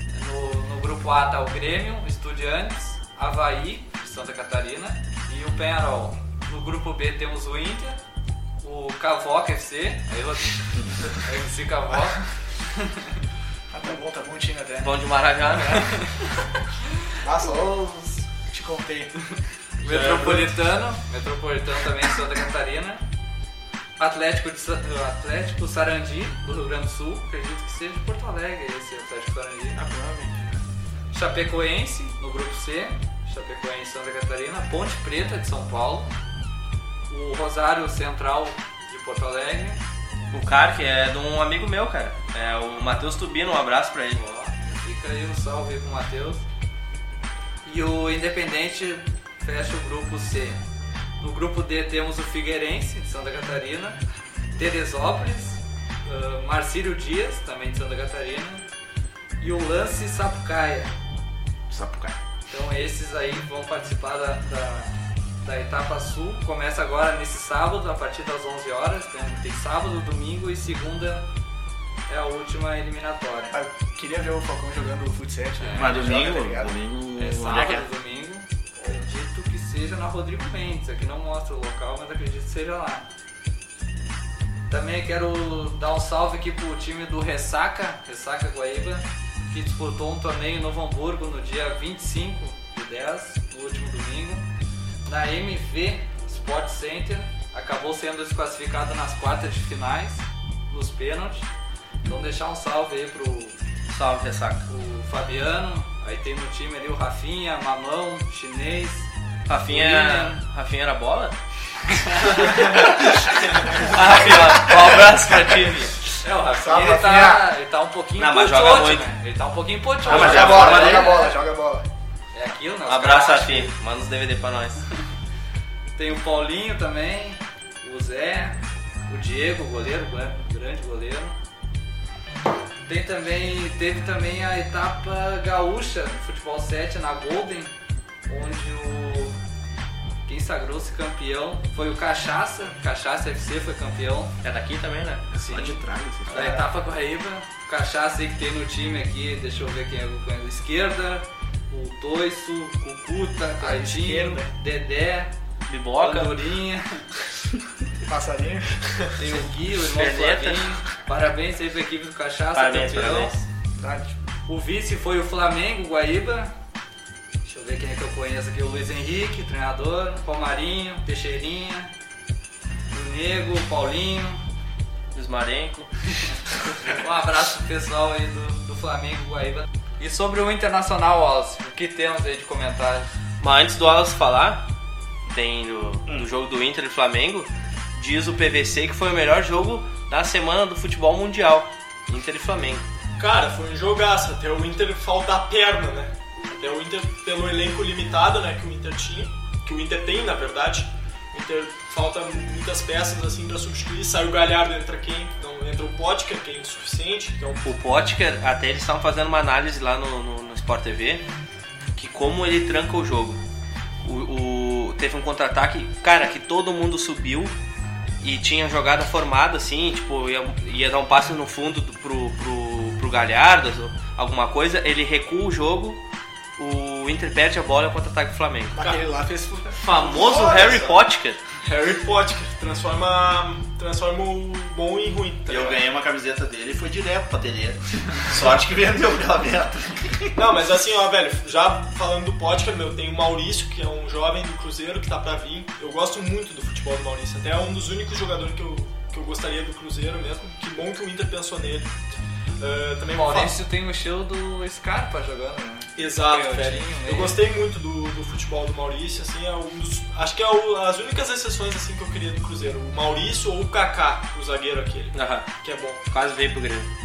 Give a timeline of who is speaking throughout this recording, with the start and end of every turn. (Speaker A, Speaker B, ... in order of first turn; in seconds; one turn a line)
Speaker A: 0.1-8.0
Speaker A: 8.6-13.1
Speaker B: 13.7-14.9
Speaker C: 14.8-16.0
Speaker B: 15.5-15.8
Speaker B: 17.2-19.1
Speaker A: 19.8-23.0
Speaker D: 19.9-20.5
Speaker A: 24.0-29.8
Speaker C: 29.9-30.4
Speaker A: 31.1-36.1
Speaker A: 37.1-39.8
Speaker C: 40.3-44.2
Speaker A: 44.1-46.4
Speaker A: 47.6-50.6
Speaker A: 51.2-54.0
Speaker A: 54.6-58.6
Speaker A: 59.4-60.9
Speaker E: 61.7-62.2
Speaker A: 62.5-71.2
Speaker A: 72.1-73.6
Speaker B: 73.5-76.7
Speaker A: 75.6-76.3
Speaker E: 75.8-77.8
Speaker A: 77.2-83.1
Speaker A: 84.7-94.5
Speaker A: 95.1-101.5
Speaker A: 102.0-103.5
Speaker C: 103.9-104.7
Speaker A: 104.7-109.1
Speaker C: 109.5-111.3
Speaker A: 109.7-110.4
Speaker A: 111.9-112.8
Speaker C: 112.2-116.0
Speaker A: 116.2-121.4
Speaker B: 116.6-117.5
Speaker C: 118.2-119.1
Speaker C: 120.0-121.2
Speaker B: 120.0-121.9
Speaker A: 122.3-123.7
Speaker C: 122.9-124.8
Speaker A: 126.0-131.4
Speaker A: 132.9-137.7
Speaker A: 138.3-139.3
Speaker A: 140.2-144.3
Speaker C: 144.4-145.2
Speaker E: 145.3-146.6
Speaker A: 145.4-155.3
Speaker B: 146.3-146.7
Speaker B: 153.6-154.5
Speaker C: 155.7-156.3
Speaker A: 156.0-157.1
Speaker B: 158.1-158.7
Speaker A: 159.2-163.4
Speaker C: 159.8-160.8
Speaker C: 162.5-163.3
Speaker B: 163.8-164.1
Speaker A: 164.5-166.5
Speaker A: 167.4-171.9
Speaker A: 172.9-174.4
Speaker C: 175.1-176.8
Speaker A: 176.8-183.1
Speaker C: 183.4-184.6
Speaker C: 185.3-192.8
Speaker D: 193.2-207.7
Speaker C: 207.6-211.2
Speaker C: 211.9-213.4
Speaker C: 214.0-217.5
Speaker C: 218.2-226.0
Speaker C: 226.6-228.8
Speaker B: 228.8-230.6
Speaker C: 229.8-231.4
Speaker D: 229.9-231.0
Speaker D: 231.6-235.8
Speaker E: 235.5-240.4
Speaker D: 240.4-251.9
Speaker D: 252.6-253.6
Speaker A: 253.1-257.4
Speaker D: 256.0-266.0
Speaker C: 265.1-265.5
Speaker C: 266.1-266.9